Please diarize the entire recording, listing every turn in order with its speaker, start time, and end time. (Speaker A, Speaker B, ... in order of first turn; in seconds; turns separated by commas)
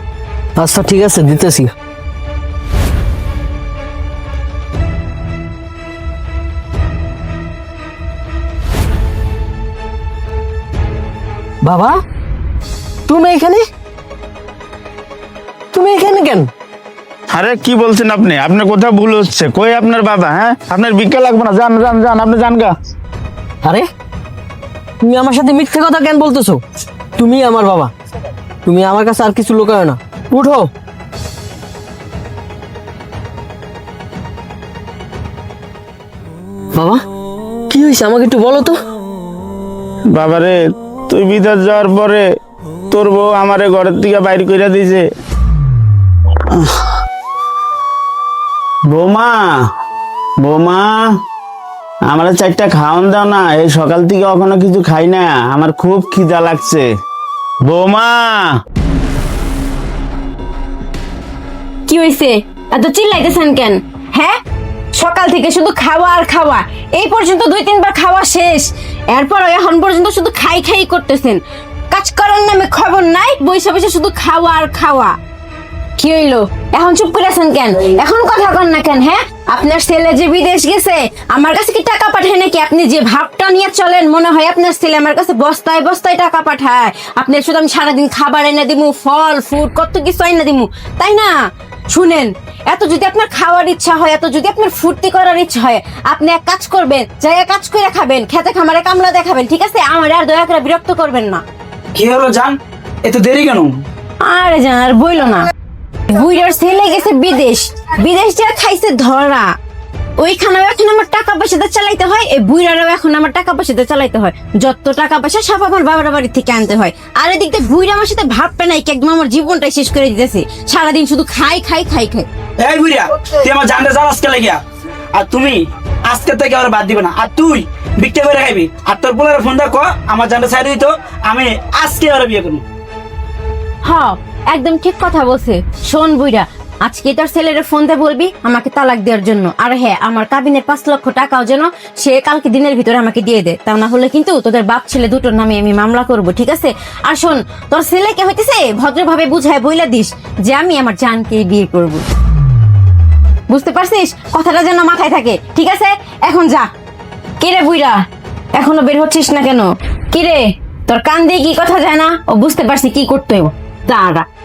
Speaker A: 0.6-1.7, Speaker A: 11.6-12.0, Speaker A: 13.1-13.6, Speaker A: 15.7-16.5, Speaker B: 17.3-22.7, Speaker A: 25.0-26.6, Speaker A: 27.2-27.9, Speaker A: 28.6-30.7, Speaker A: 36.7-37.0, Speaker A: 37.7-38.8, Speaker B: 40.1-40.5, Speaker B: 41.1-42.2, Speaker B: 42.9-45.0, Speaker B: 48.9-49.4, Speaker B: 50.4-51.1, Speaker B: 52.1-56.9, Speaker B: 57.6-58.5, Speaker C: 61.9-64.4, Speaker C: 64.9-75.2, Speaker C: 76.0-91.3, Speaker C: 91.9-101.4, Speaker D: 101.9-103.8, Speaker C: 104.2-105.5, Speaker C: 106.1-109.5, Speaker C: 110.2-122.3, Speaker D: 122.6-124.6, Speaker D: 125.1-132.6, Speaker C: 133.8-152.0, Speaker C: 153.5-156.7, Speaker C: 157.4-158.0, Speaker C: 158.6-164.2